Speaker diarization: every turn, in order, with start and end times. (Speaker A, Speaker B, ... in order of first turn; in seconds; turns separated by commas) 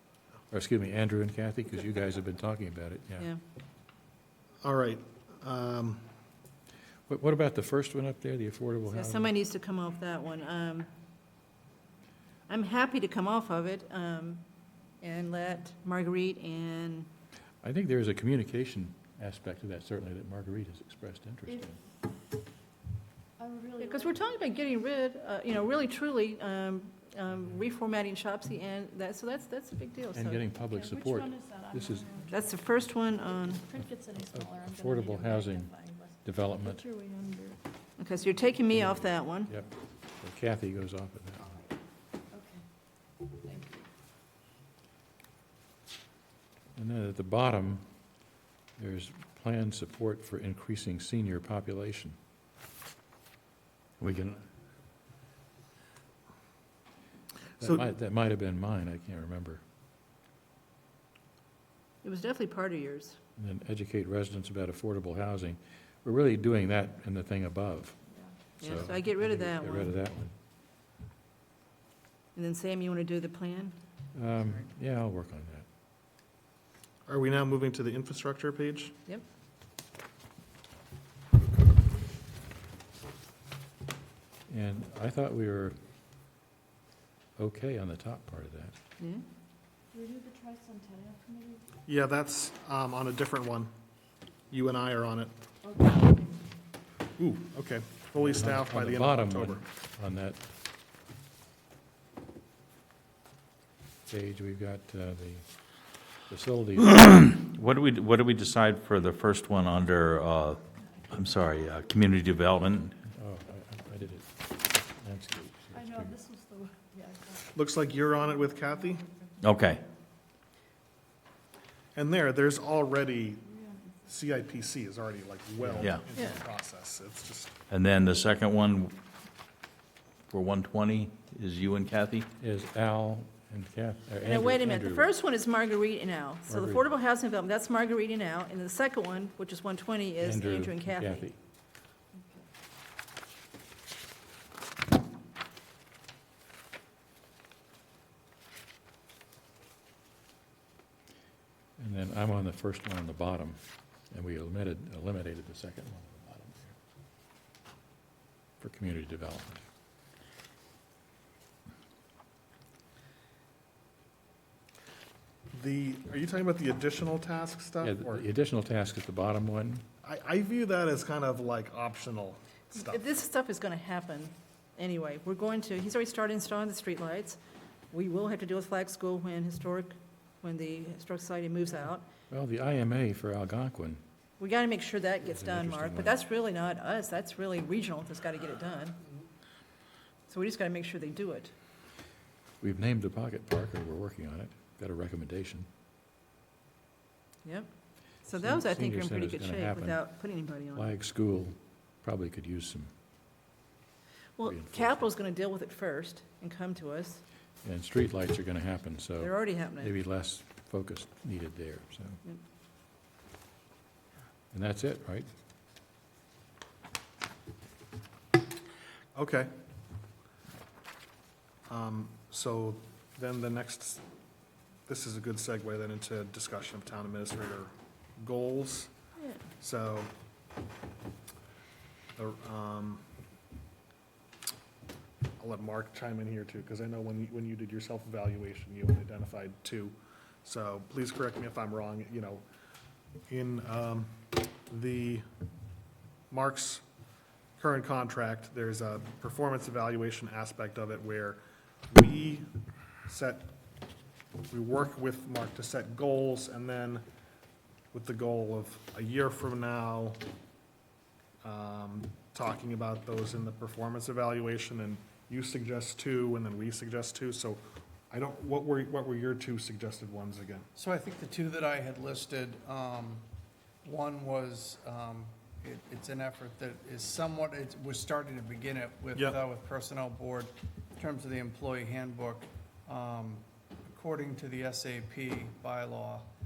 Speaker A: 0.5-3.3, Speaker B: 4.6-6.0, Speaker A: 7.1-9.3, Speaker C: 8.9-10.9, Speaker C: 12.5-14.4, Speaker C: 15.0-17.1, Speaker A: 17.6-21.8, Speaker D: 21.5-21.8, Speaker D: 23.4-24.4, Speaker C: 23.8-30.4, Speaker A: 30.1-32.1, Speaker D: 30.7-32.7, Speaker C: 32.3-33.6, Speaker D: 33.5-37.6, Speaker A: 34.3-35.7, Speaker A: 36.2-36.8, Speaker C: 38.0-39.5, Speaker A: 38.7-41.4, Speaker D: 42.3-42.6, Speaker D: 43.2-43.9, Speaker A: 46.8-47.8, Speaker A: 48.8-52.2, Speaker A: 54.0-54.4, Speaker A: 57.6-59.6, Speaker C: 62.0-63.2, Speaker A: 63.4-68.0, Speaker A: 68.6-70.3, Speaker C: 68.6-69.9, Speaker C: 72.3-73.7, Speaker A: 74.1-75.6, Speaker B: 77.1-78.9, Speaker A: 84.5-85.8, Speaker A: 87.4-88.7, Speaker C: 89.0-89.2, Speaker D: 89.9-91.6, Speaker B: 91.8-93.7, Speaker B: 94.5-95.3, Speaker D: 95.7-96.2, Speaker B: 97.2-99.6, Speaker A: 98.2-100.4, Speaker A: 104.1-105.4, Speaker A: 106.3-107.0, Speaker E: 107.0-113.0, Speaker A: 113.1-116.2, Speaker D: 115.7-117.5, Speaker B: 117.5-119.0, Speaker D: 118.2-119.4, Speaker E: 119.4-119.8, Speaker B: 121.9-123.5, Speaker D: 123.6-124.0, Speaker B: 124.0-127.6, Speaker A: 125.6-125.9, Speaker E: 127.7-128.9, Speaker E: 130.3-132.3, Speaker A: 132.4-135.1, Speaker C: 134.2-141.3, Speaker A: 136.5-136.8, Speaker A: 140.2-141.3, Speaker A: 151.8-153.6, Speaker A: 154.1-156.7, Speaker A: 158.6-159.6, Speaker B: 165.5-168.3, Speaker A: 167.8-169.8, Speaker B: 170.0-173.0, Speaker C: 172.7-177.4, Speaker C: 177.9-182.0, Speaker A: 182.3-184.0, Speaker C: 184.4-189.0, Speaker A: 185.2-186.2, Speaker C: 190.3-191.5, Speaker A: 192.6-195.7, Speaker C: 198.2-200.9, Speaker A: 198.4-200.0, Speaker A: 200.7-202.9, Speaker C: 204.4-207.2, Speaker A: 204.4-204.9, Speaker A: 207.6-212.2, Speaker C: 209.2-209.9, Speaker A: 214.5-215.3, Speaker B: 219.1-219.5, Speaker B: 221.7-224.0, Speaker B: 224.9-228.9, Speaker C: 229.2-229.4, Speaker B: 229.6-230.1, Speaker B: 232.2-233.0, Speaker B: 235.4-242.4, Speaker B: 243.3-245.2, Speaker B: 246.3-246.8, Speaker B: 247.6-251.4, Speaker B: 251.9-252.5, Speaker B: 253.1-253.5, Speaker B: 254.5-257.0, Speaker B: 257.9-260.2, Speaker B: 261.4-270.6, Speaker F: 270.8-273.2, Speaker F: 273.8-286.3